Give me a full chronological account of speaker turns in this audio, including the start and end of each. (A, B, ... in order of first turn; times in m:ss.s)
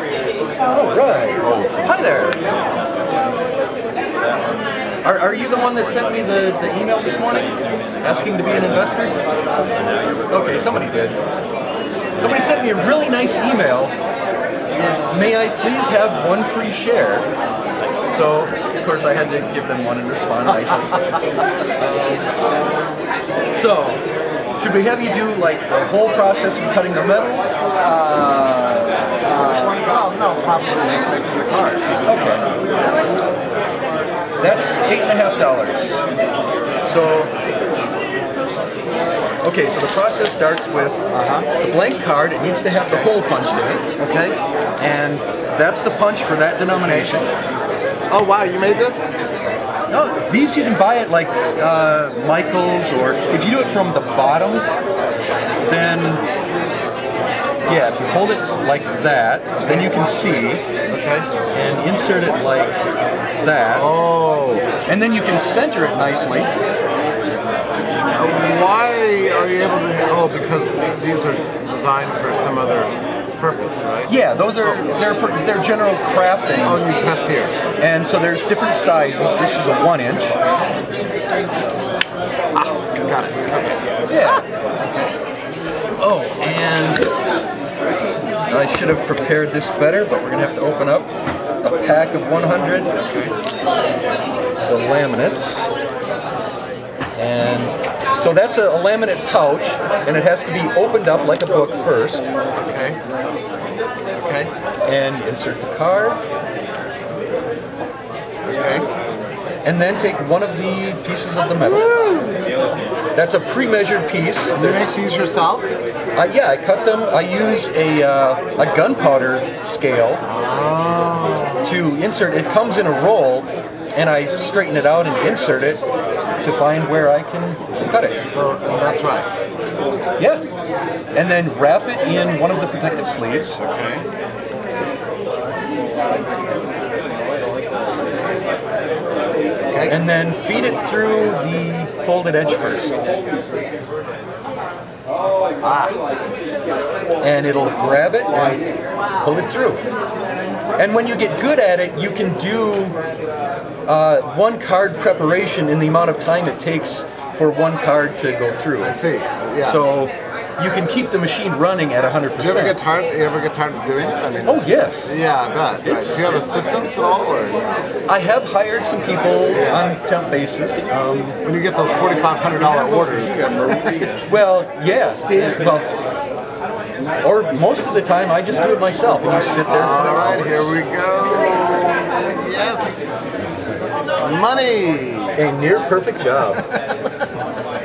0:00.7-0:02.4 A
0:05.0-0:09.1 A
0:10.3-0:11.2 A
0:12.2-0:13.9 A
0:14.7-0:17.3 A
0:18.1-0:21.2 A
0:20.5-0:21.2 B
0:21.8-0:22.3 A
0:23.5-0:24.0 A
0:24.6-0:27.4 A
0:27.8-0:32.1 B
0:32.0-0:32.4 A
0:34.4-0:35.9 A
0:36.8-0:37.3 A
0:39.4-0:41.0 A
0:41.1-0:41.5 B
0:41.6-0:43.8 A
0:44.0-0:44.4 B
0:44.8-0:47.3 A
0:46.8-0:47.1 B
0:48.1-0:49.1 B
0:49.9-0:54.6 A
0:55.6-0:56.2 A
0:57.7-1:00.6 A
0:59.6-0:59.9 B
1:00.9-1:01.3 B
1:01.5-1:02.8 A
1:03.4-1:03.9 A
1:03.7-1:04.7 B
1:04.9-1:06.5 A
1:08.1-1:14.9 B
1:14.1-1:16.9 A
1:16.6-1:17.5 B
1:17.8-1:20.4 A
1:22.5-1:24.4 B
1:24.1-1:24.4 A
1:26.0-1:27.1 A
1:28.5-1:31.1 A
1:31.6-1:32.9 A
1:33.0-1:33.3 B
1:34.6-1:35.7 A
1:37.2-1:42.2 A
1:42.6-1:43.0 B
1:44.1-1:44.5 B
1:44.8-1:46.2 A
1:48.4-1:48.9 B
1:49.6-1:51.9 A
1:51.6-1:52.5 B
1:53.1-1:55.0 A
1:54.5-1:55.7 B
1:56.2-2:00.2 A
2:00.2-2:01.7 B
2:01.6-2:05.8 A
2:06.4-2:08.2 A
2:08.3-2:09.3 B
2:11.1-2:13.6 A
2:13.6-2:14.1 B
2:19.7-2:20.0 B
2:19.9-2:23.0 A
2:25.6-2:26.0 B
2:27.2-2:28.6 A
2:29.2-2:29.8 A
2:30.8-2:33.0 A
2:33.9-2:39.0 A
2:38.8-2:39.9 B
2:39.6-2:42.8 A
2:42.4-2:47.6 B
2:44.4-2:45.2 A
2:45.8-2:46.4 A
2:48.1-2:51.4 A
2:49.5-2:49.9 B
2:51.4-2:54.2 B
2:54.2-2:55.9 A
2:57.2-3:00.7 A
2:59.6-3:05.4 B
3:05.4-3:06.6 A
3:06.4-3:07.1 B